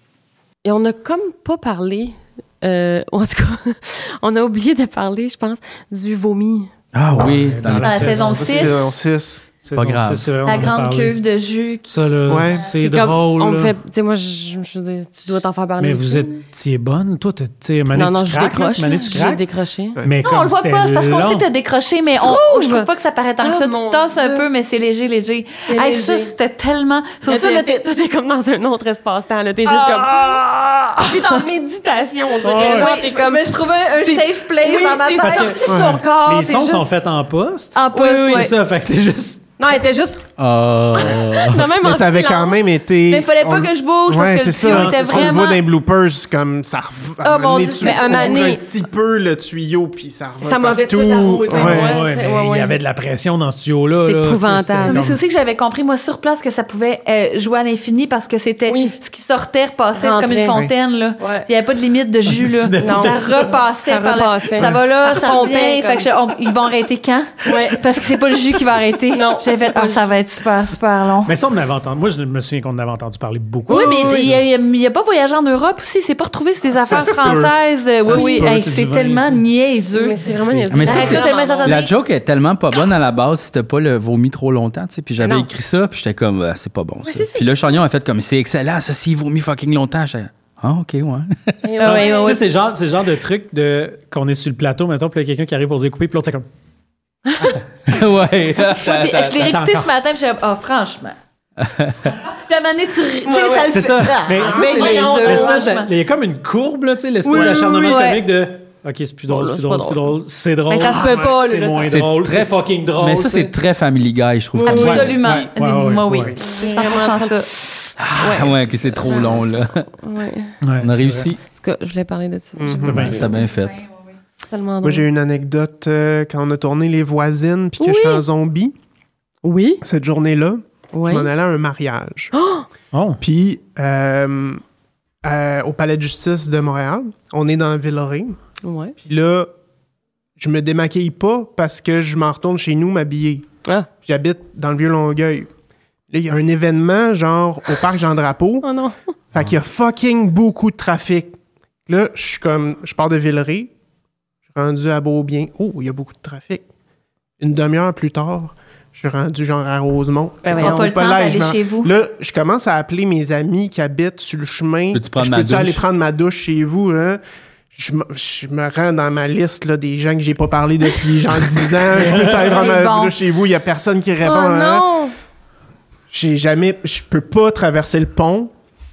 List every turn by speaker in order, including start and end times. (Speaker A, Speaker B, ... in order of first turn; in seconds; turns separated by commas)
Speaker A: 0.6-6.7, Speaker B: 6.9-8.2, Speaker C: 7.1-8.9, Speaker D: 7.8-8.9, Speaker E: 8.2-9.4, Speaker C: 9.6-11.2, Speaker B: 9.8-10.3, Speaker D: 10.4-11.9, Speaker C: 11.9-13.8, Speaker E: 12.3-12.7, Speaker A: 12.7-16.4, Speaker C: 15.8-19.4, Speaker A: 17.9-20.0, Speaker C: 20.0-21.5, Speaker D: 20.2-27.8, Speaker A: 22.2-22.9, Speaker A: 23.4-24.5, Speaker A: 25.7-26.3, Speaker A: 27.2-36.8, Speaker D: 29.7-30.4, Speaker D: 31.0-31.4, Speaker C: 32.4-32.9, Speaker D: 32.5-36.9, Speaker C: 35.2-39.5, Speaker E: 35.7-36.0, Speaker D: 37.8-38.5, Speaker A: 37.9-38.5, Speaker A: 39.6-40.2, Speaker B: 40.4-41.7, Speaker A: 41.0-42.5, Speaker E: 41.8-52.0, Speaker D: 43.1-45.6, Speaker C: 44.6-44.9, Speaker D: 47.2-48.5, Speaker A: 47.6-48.6, Speaker A: 50.4-52.7, Speaker C: 51.5-55.2, Speaker A: 53.9-55.0, Speaker D: 54.9-71.3, Speaker A: 58.7-59.0, Speaker A: 60.0-60.6, Speaker E: 60.5-60.7, Speaker A: 61.2-61.5, Speaker C: 62.3-63.5, Speaker A: 62.8-66.1, Speaker A: 67.5-67.8, Speaker A: 69.1-70.0, Speaker C: 71.2-74.4, Speaker A: 73.7-74.3, Speaker D: 73.7-81.9, Speaker C: 76.8-79.4, Speaker A: 78.1-78.4, Speaker A: 79.9-81.9, Speaker C: 80.4-81.0, Speaker B: 80.7-91.6, Speaker A: 85.2-85.5, Speaker A: 87.0-87.8, Speaker A: 91.6-92.5, Speaker D: 91.8-92.4, Speaker C: 91.8-96.5, Speaker B: 97.9-99.5, Speaker D: 98.8-101.2, Speaker C: 99.4-99.9, Speaker B: 101.6-102.0, Speaker D: 102.2-105.9, Speaker A: 103.3-105.7, Speaker C: 103.7-113.6, Speaker A: 107.2-108.1, Speaker D: 107.4-108.3, Speaker A: 109.3-110.1, Speaker A: 110.7-111.9, Speaker B: 111.0-115.4, Speaker A: 114.6-115.2, Speaker C: 114.7-116.4, Speaker D: 114.7-117.5, Speaker A: 116.4-117.5, Speaker B: 118.0-119.9, Speaker A: 118.2-120.5, Speaker C: 120.6-121.3, Speaker B: 120.8-121.4, Speaker A: 121.5-123.1, Speaker E: 122.6-123.4, Speaker C: 122.8-123.3, Speaker B: 122.9-123.8, Speaker A: 124.5-125.1, Speaker E: 124.8-128.8, Speaker A: 127.8-128.2, Speaker A: 129.4-129.8, Speaker E: 129.8-132.3, Speaker A: 130.9-131.3, Speaker A: 132.3-132.7, Speaker C: 132.9-133.2, Speaker E: 133.2-134.6, Speaker E: 135.2-138.4, Speaker A: 138.6-139.0, Speaker E: 139.0-139.5, Speaker E: 140.4-143.5, Speaker E: 144.0-145.5, Speaker E: 146.1-148.7, Speaker A: 148.6-149.0, Speaker E: 149.3-153.7, Speaker E: 154.5-156.7, Speaker E: 157.4-167.2, Speaker A: 160.4-160.9, Speaker D: 160.6-161.9, Speaker B: 164.9-165.8, Speaker E: 167.7-174.9, Speaker C: 172.0-172.6, Speaker D: 172.0-173.2, Speaker A: 174.2-175.1, Speaker E: 176.1-178.5